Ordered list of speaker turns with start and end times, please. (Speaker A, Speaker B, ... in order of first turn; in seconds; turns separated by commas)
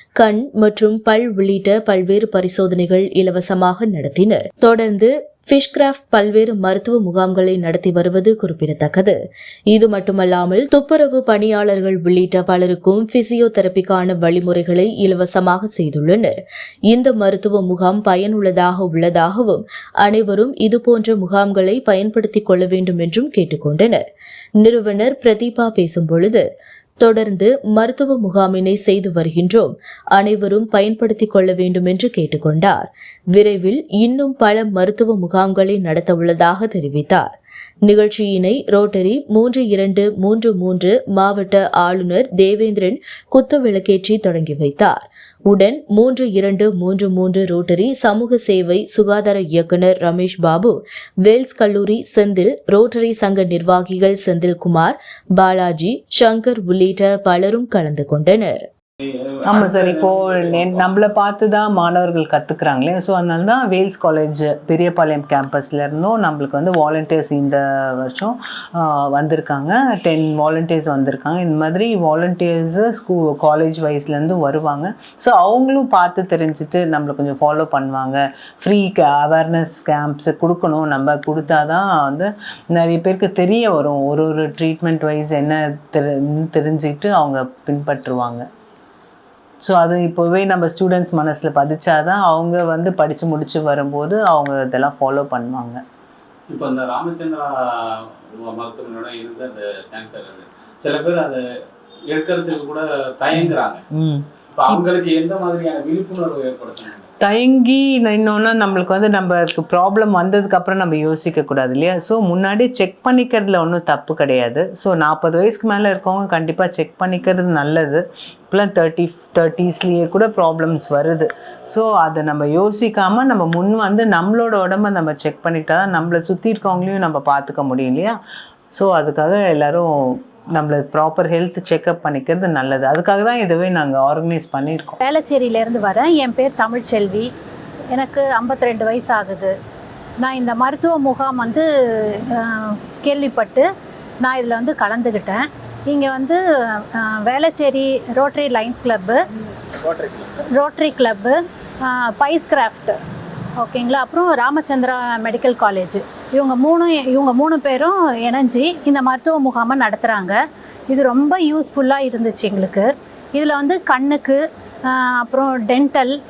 Speaker A: 0.2-9.2, Speaker A: 9.7-16.4, Speaker A: 16.9-24.1, Speaker A: 24.6-26.5, Speaker A: 27.0-37.3, Speaker A: 37.9-58.7, Speaker B: 59.0-61.0, Speaker C: 59.5-88.5, Speaker C: 89.6-95.8, Speaker B: 96.5-101.4, Speaker B: 102.1-103.8, Speaker C: 103.3-104.8, Speaker B: 104.5-107.1, Speaker C: 107.2-128.2, Speaker C: 128.7-135.0, Speaker D: 135.0-137.3, Speaker D: 137.9-139.5, Speaker D: 140.2-143.7, Speaker D: 144.2-149.2, Speaker B: 149.7-150.4, Speaker D: 150.6-153.0, Speaker D: 153.6-160.4, Speaker D: 160.9-166.2